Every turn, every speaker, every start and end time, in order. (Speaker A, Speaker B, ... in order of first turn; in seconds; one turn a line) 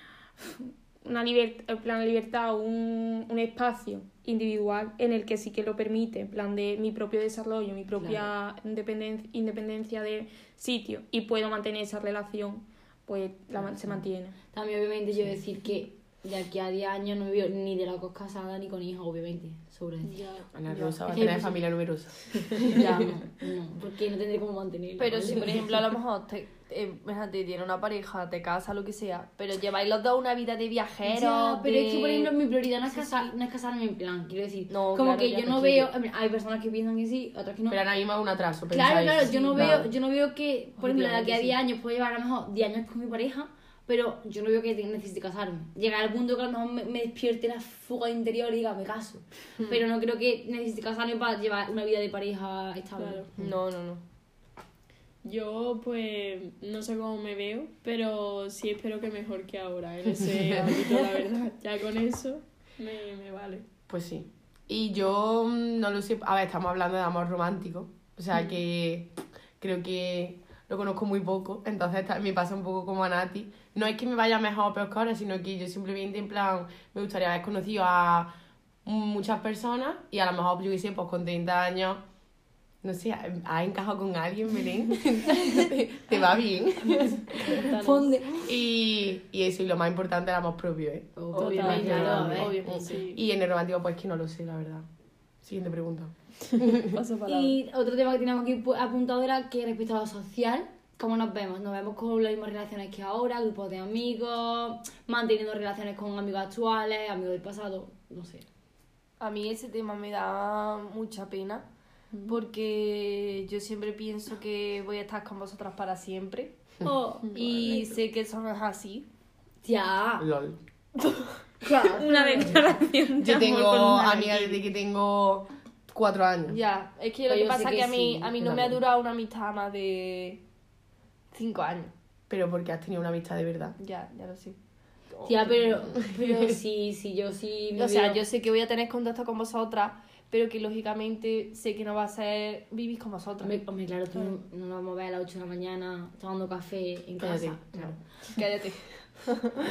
Speaker A: 0.4-14.4
Speaker B: 8.0-8.3
Speaker B: 13.6-20.3
Speaker C: 20.0-21.6
Speaker D: 20.5-22.7
Speaker B: 21.1-21.6
Speaker B: 22.7-25.7
Speaker E: 25.0-32.3
Speaker B: 31.1-37.8
Speaker E: 32.9-33.3
Speaker E: 34.7-35.9
Speaker D: 37.7-39.9
Speaker B: 38.7-53.3
Speaker E: 39.5-39.8
Speaker E: 40.8-41.6
Speaker C: 53.0-53.3
Speaker E: 53.4-54.0
Speaker C: 55.2-63.7
Speaker D: 60.4-60.7
Speaker D: 63.9-78.3
Speaker D: 78.8-82.0
Speaker D: 82.8-87.6
Speaker C: 87.4-88.2
Speaker B: 87.5-88.5
Speaker D: 88.4-94.9
Speaker B: 91.2-92.6
Speaker E: 91.3-93.0
Speaker C: 91.3-93.2
Speaker D: 95.4-96.9
Speaker C: 96.9-97.6
Speaker B: 97.3-108.5
Speaker E: 109.2-119.1
Speaker C: 112.1-112.4
Speaker A: 116.8-118.0
Speaker B: 119.6-120.3
Speaker D: 120.2-120.6
Speaker B: 121.6-122.6
Speaker A: 121.6-124.6
Speaker D: 123.2-126.6
Speaker E: 126.5-130.4
Speaker B: 127.3-128.3
Speaker D: 128.4-128.8
Speaker E: 131.3-131.9
Speaker D: 132.3-133.8
Speaker E: 133.8-135.8
Speaker B: 135.2-138.2
Speaker D: 136.1-136.5
Speaker E: 137.8-143.6
Speaker B: 143.4-148.0
Speaker D: 147.2-148.0
Speaker E: 148.2-149.5